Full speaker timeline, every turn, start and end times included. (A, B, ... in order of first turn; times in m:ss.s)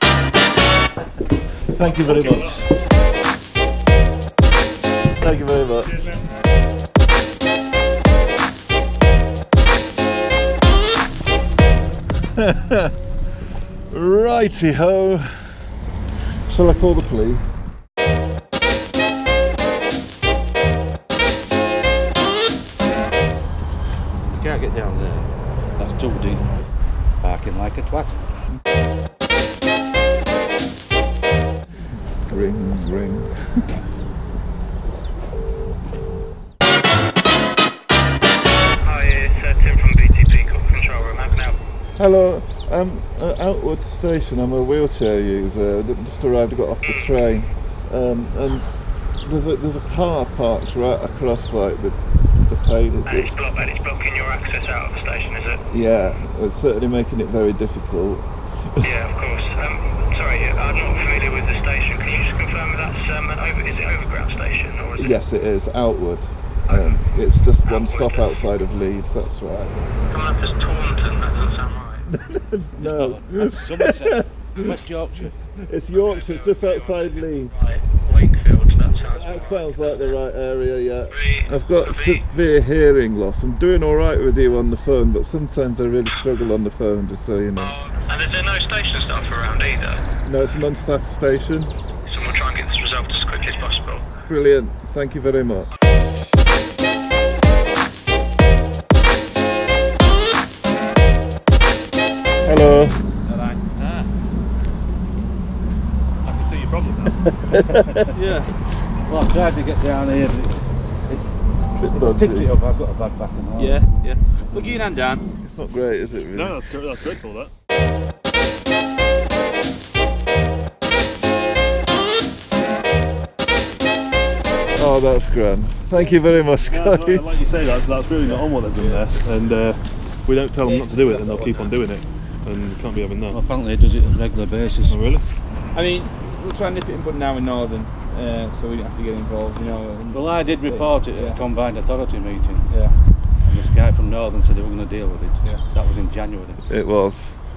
0:01.7-0:02.8 A
0:05.2-0:06.3 A
0:13.9-0:15.7 A
0:16.4-0:17.6 A
0:24.2-0:25.1 B
0:25.7-0:28.3 B
0:32.2-0:33.8 A
0:38.8-0:41.6 C
0:42.0-0:53.4 A
0:46.8-0:47.1 C
0:53.0-0:55.6 C
0:55.7-0:58.9 A
0:58.8-1:05.2 C
1:05.0-1:09.8 A
1:06.7-1:07.0 C
1:07.6-1:08.4 C
1:10.1-1:12.1 C
1:12.1-1:13.8 A
1:12.8-1:15.3 B
1:14.4-1:14.8 A
1:15.6-1:17.5 A
1:15.9-1:20.2 C
1:19.1-1:27.8 A
1:21.1-1:22.2 C
1:27.6-1:30.0 C
1:30.2-1:31.7 A
1:32.0-1:34.0 C
1:34.2-1:35.7 A
1:42.4-1:43.1 A
1:43.3-1:43.6 D
1:46.2-1:47.3 E
1:48.2-1:48.5 D
1:49.0-1:51.1 B
1:51.7-1:52.5 A
1:51.9-1:54.6 B
1:53.6-1:55.2 D
1:55.4-1:56.6 A
1:56.3-1:57.5 E
2:04.7-2:07.5 A
2:06.6-2:13.4 E
2:08.7-2:09.2 D
2:10.6-2:11.7 D
2:13.3-2:15.0 B
2:14.9-2:15.2 E
2:15.7-2:21.4 D
2:20.1-2:26.6 B
2:22.7-2:23.0 D
2:26.7-2:27.4 A